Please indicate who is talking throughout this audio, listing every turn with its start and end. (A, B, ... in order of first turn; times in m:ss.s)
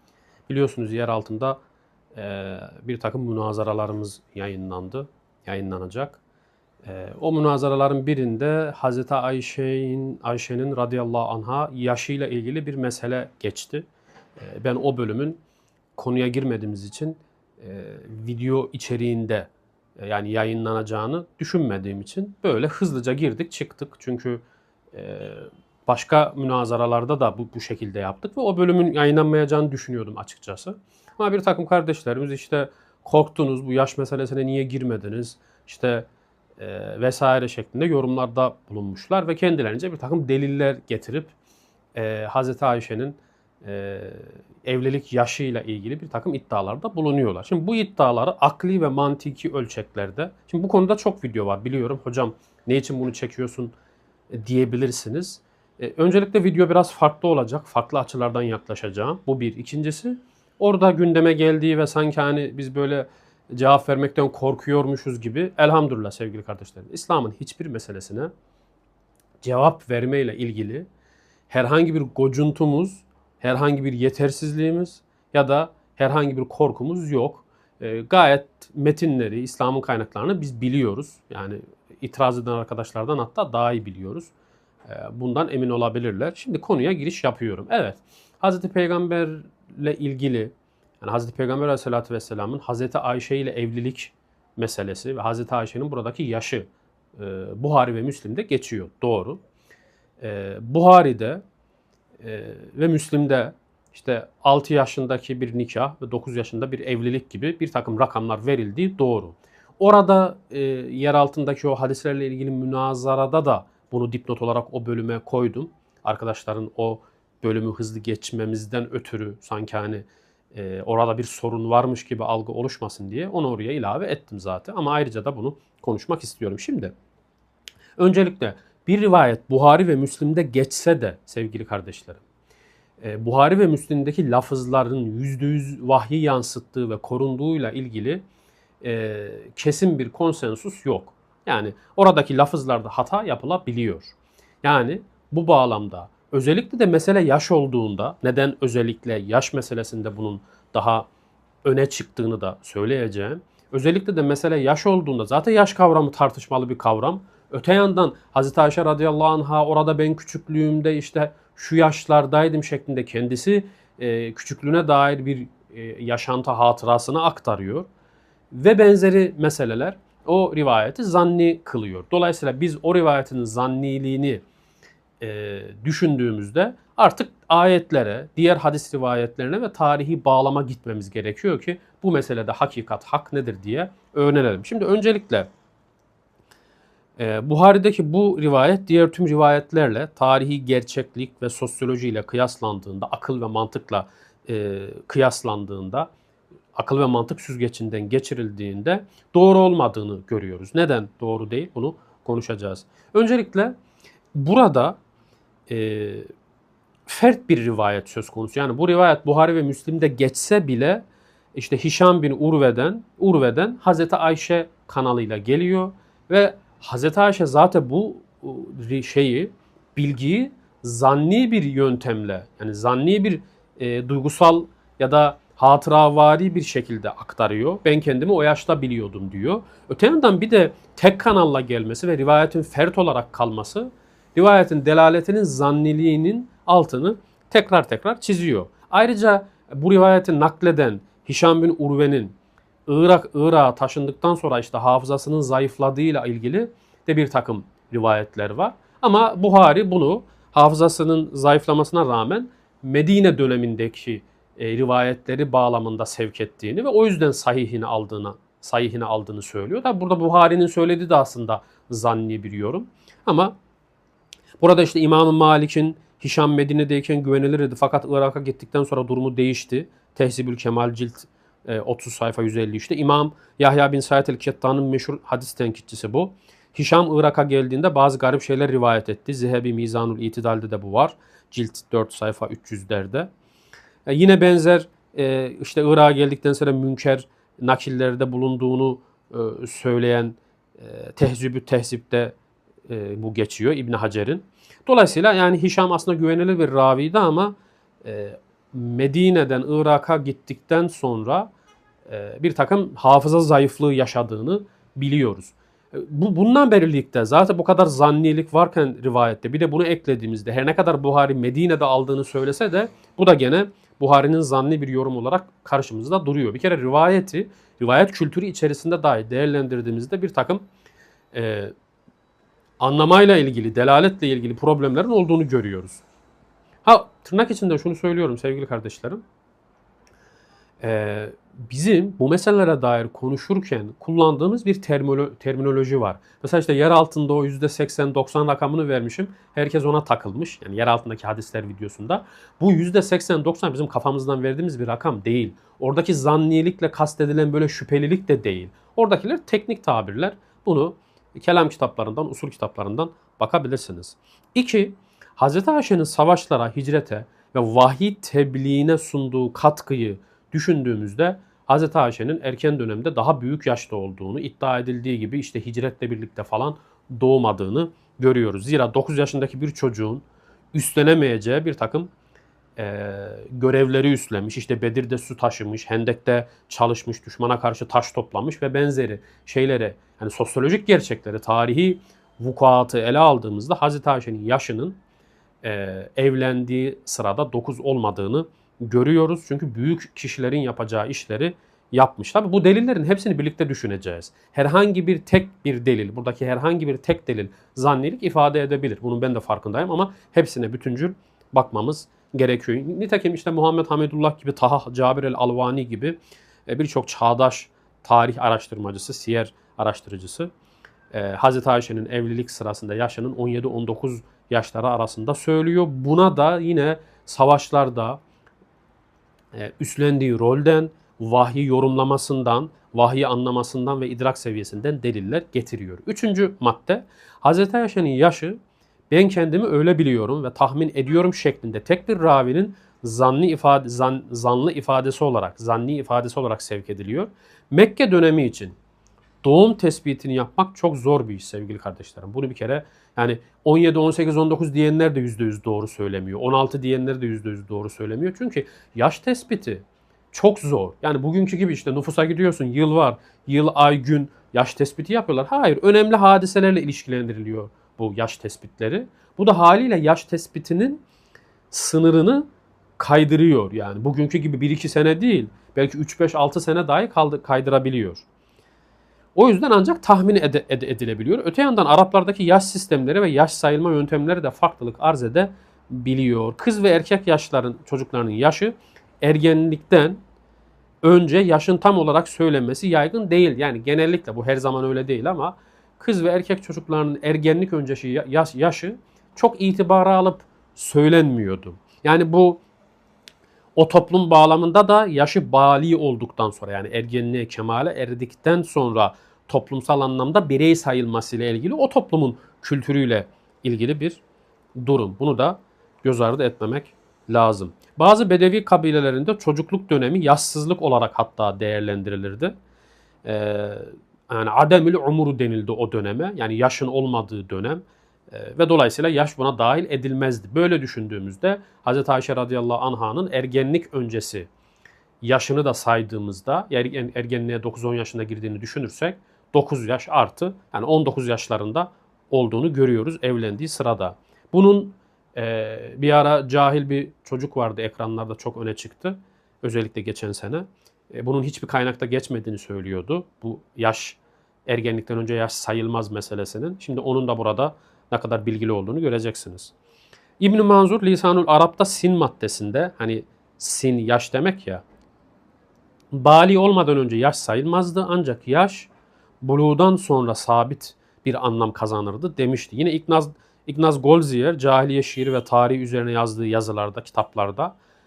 0:00.5-0:01.6 A
0:02.1-0:06.2 A
0:06.8-0:13.8 A
0:14.4-0:15.4 A
0:16.0-0:36.1 A
0:36.6-0:41.3 A
0:41.9-0:53.7 A
0:54.3-1:08.3 A
1:09.4-1:10.8 A
1:11.5-1:24.3 A
1:24.9-1:39.4 A
1:40.2-1:41.4 A
1:42.2-2:06.9 A
2:08.0-2:12.2 A
2:13.0-2:18.2 A
2:18.8-2:31.1 A
2:31.6-2:47.9 A
2:48.5-2:54.4 A
2:55.2-3:05.5 A
3:07.2-3:16.1 A
3:16.7-3:23.8 A
3:24.3-3:25.0 A
3:25.7-3:26.3 A
3:27.1-3:31.0 A
3:31.5-4:02.4 A
4:02.9-4:23.5 A
4:24.6-4:43.3 A
4:44.0-4:52.4 A
4:52.9-5:01.5 A
5:02.1-5:20.6 A
5:21.3-5:21.7 A
5:22.8-5:26.0 A
5:26.8-5:29.2 A
5:30.8-6:12.1 A
6:12.8-6:25.0 A
6:25.6-6:50.5 A
6:51.1-6:58.2 A
6:59.5-7:08.6 A
7:09.1-7:18.8 A
7:19.4-7:41.0 A
7:41.7-7:48.2 A
7:49.3-8:00.2 A
8:01.0-8:12.6 A
8:13.8-8:24.2 A
8:24.8-8:32.5 A
8:33.2-8:44.5 A
8:45.2-9:09.7 A
9:10.4-9:14.8 A
9:16.1-9:18.9 A
9:19.4-9:27.7 A